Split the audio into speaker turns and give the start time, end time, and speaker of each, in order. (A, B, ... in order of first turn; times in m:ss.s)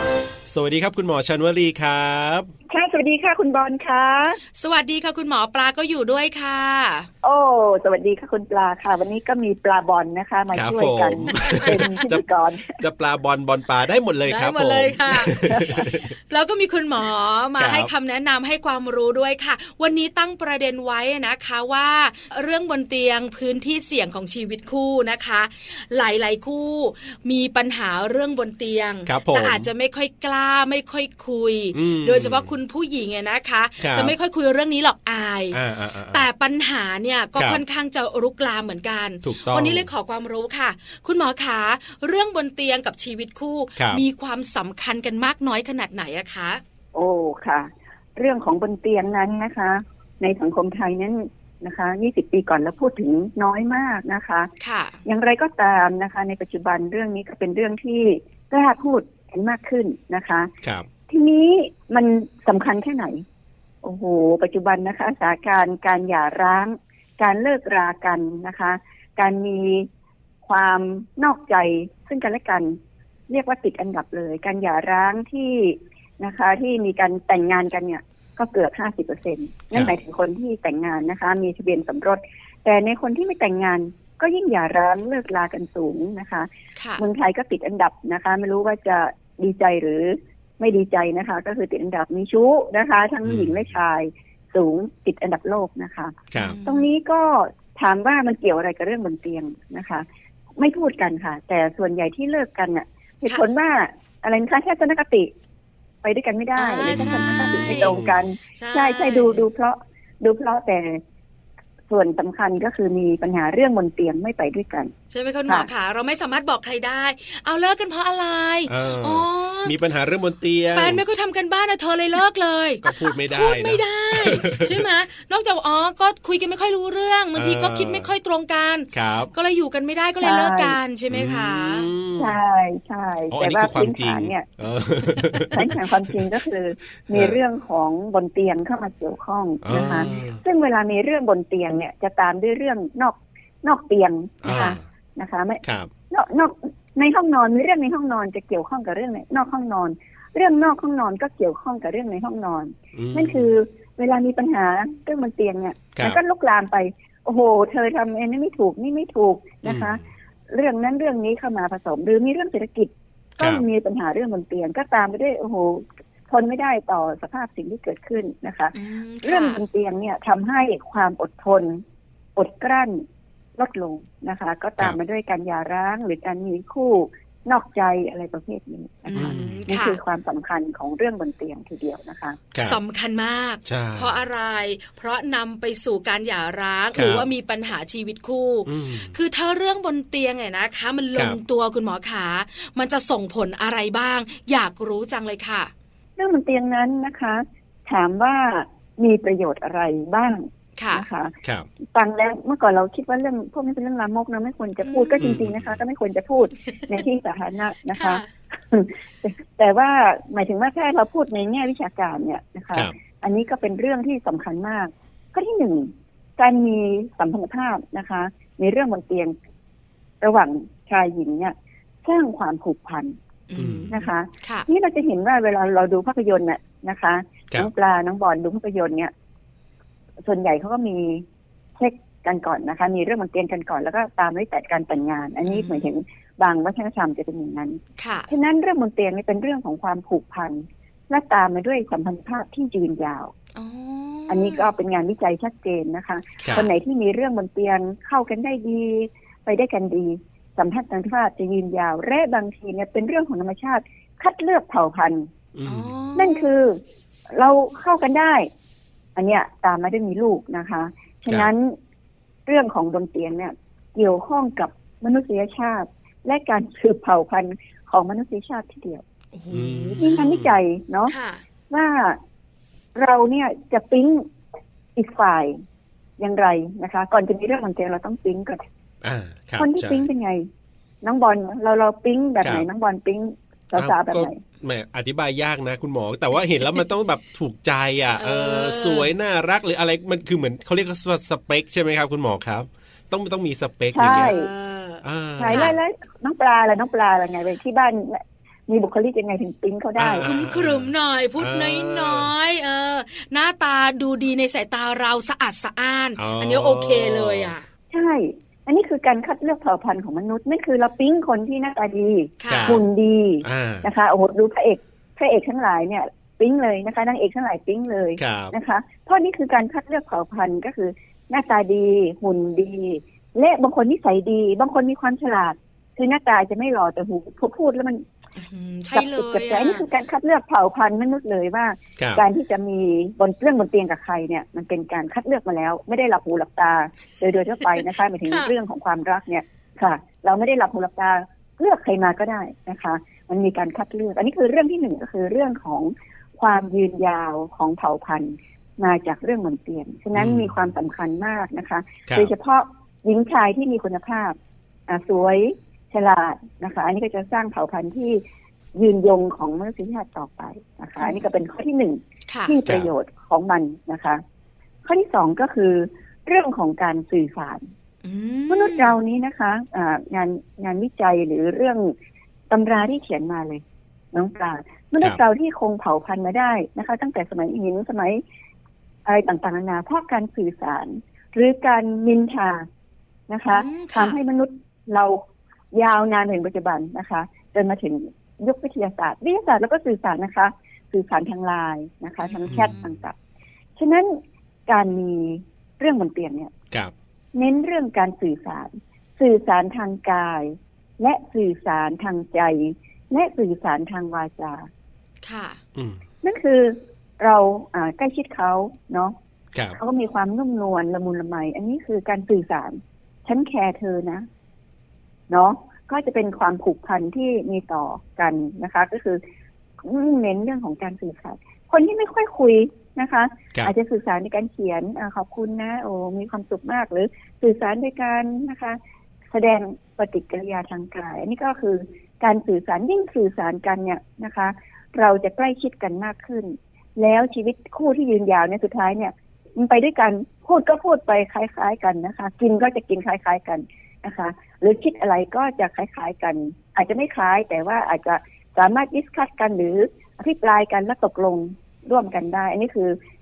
0:00.5-0:02.5 A
0:02.7-0:04.4 B
0:04.6-0:07.1 C
0:07.2-0:12.8 B
0:10.5-0:12.2 A
0:12.8-0:16.1 A
0:14.3-0:35.6 C
0:17.6-0:17.9 A
0:29.0-0:29.7 A
0:31.7-0:32.5 A
0:33.8-0:34.1 A
0:35.5-0:36.2 A
0:36.1-0:46.6 C
0:39.2-0:39.9 A
0:43.8-0:44.0 A
0:46.9-0:54.5 B
0:54.6-0:55.0 C
0:55.0-1:00.5 B
1:00.6-1:00.9 A
1:01.1-1:03.2 B
1:03.8-1:09.9 B
1:10.4-1:12.8 B
1:13.3-1:40.0 B
1:26.8-1:27.0 C
1:33.2-1:33.6 A
1:36.3-1:36.6 A
1:36.4-1:36.9 C
1:40.6-1:45.3 B
1:46.0-1:51.0 B
1:46.6-1:48.0 C
1:46.9-1:48.3 A
1:48.6-1:49.4 C
1:51.9-1:54.9 B
1:55.1-1:59.7 C
1:58.7-2:01.0 A
2:00.7-2:11.9 C
2:02.8-2:04.8 A
2:07.3-2:08.1 A
2:08.9-2:09.3 A
2:10.2-2:10.8 B
2:11.1-2:12.4 A
2:12.2-2:14.4 B
2:13.3-2:16.3 A
2:15.5-2:51.8 B
2:17.1-2:17.4 A
2:19.6-2:20.4 A
2:24.4-2:24.8 A
2:24.5-2:24.8 C
2:25.6-2:25.9 A
2:32.9-2:33.5 A
2:39.6-2:40.0 A
2:48.7-2:49.6 C
2:52.4-2:53.0 B
2:53.6-3:02.4 B
2:59.1-3:00.0 C
2:59.2-2:59.6 A
3:02.5-3:02.8 A
3:02.6-3:15.7 C
3:03.6-3:04.2 A
3:06.9-3:07.2 A
3:08.6-3:09.1 A
3:16.2-3:21.3 B
3:20.8-3:21.0 C
3:21.9-3:39.3 B
3:24.8-3:25.4 C
3:25.2-3:25.8 A
3:27.9-3:28.3 C
3:40.2-3:43.1 B
3:43.5-3:44.7 C
3:43.6-3:43.9 A
3:43.9-3:49.1 B
3:50.2-3:51.2 B
3:51.8-4:03.3 B
3:55.4-3:55.9 C
3:58.0-3:58.3 C
4:03.6-4:04.7 C
4:04.3-4:15.3 B
4:06.4-4:06.7 A
4:15.5-4:15.9 A
4:15.6-4:16.5 C
4:16.2-4:16.8 B
4:17.3-4:18.5 B
4:19.1-4:21.8 B
4:22.4-4:29.0 B
4:29.3-4:30.2 C
4:29.5-4:30.6 A
4:30.0-4:31.1 B
4:31.1-4:31.4 C
4:31.7-4:32.2 B
4:32.9-4:34.2 B
4:35.0-4:35.6 B
4:36.2-4:38.6 B
4:39.0-4:40.1 A
4:39.6-4:40.5 B
4:41.0-4:44.4 B
4:42.4-4:42.6 A
4:43.7-4:54.3 A
4:48.2-4:49.1 C
4:53.9-4:54.5 B
4:54.2-4:55.8 C
4:55.0-4:55.8 A
4:55.4-5:00.3 B
5:00.0-5:02.3 A
5:00.2-5:07.6 C
5:06.2-5:07.5 A
5:07.9-5:28.0 B
5:12.4-5:12.8 C
5:12.5-5:12.8 A
5:13.4-5:13.9 A
5:18.2-5:18.5 A
5:28.4-5:29.8 C
5:28.9-5:54.4 B
5:32.0-5:32.2 A
5:37.8-5:38.5 C
5:50.1-5:50.5 A
5:54.9-5:58.2 B
5:58.7-6:04.2 B
6:01.0-6:01.3 C
6:02.3-6:02.6 C
6:04.8-6:07.6 B
6:08.0-6:09.0 C
6:08.5-6:11.9 B
6:12.5-6:18.2 B
6:19.0-6:22.7 B
6:23.3-6:25.2 B
6:23.5-6:24.2 C
6:25.7-6:33.2 B
6:32.2-6:32.7 C
6:32.5-6:33.0 A
6:33.8-6:36.5 B
6:37.3-6:44.7 B
6:45.2-6:45.6 C
6:46.2-6:49.1 B
6:49.8-6:54.3 B
6:55.3-6:59.2 B
6:59.8-7:08.8 B
7:09.3-7:33.0 B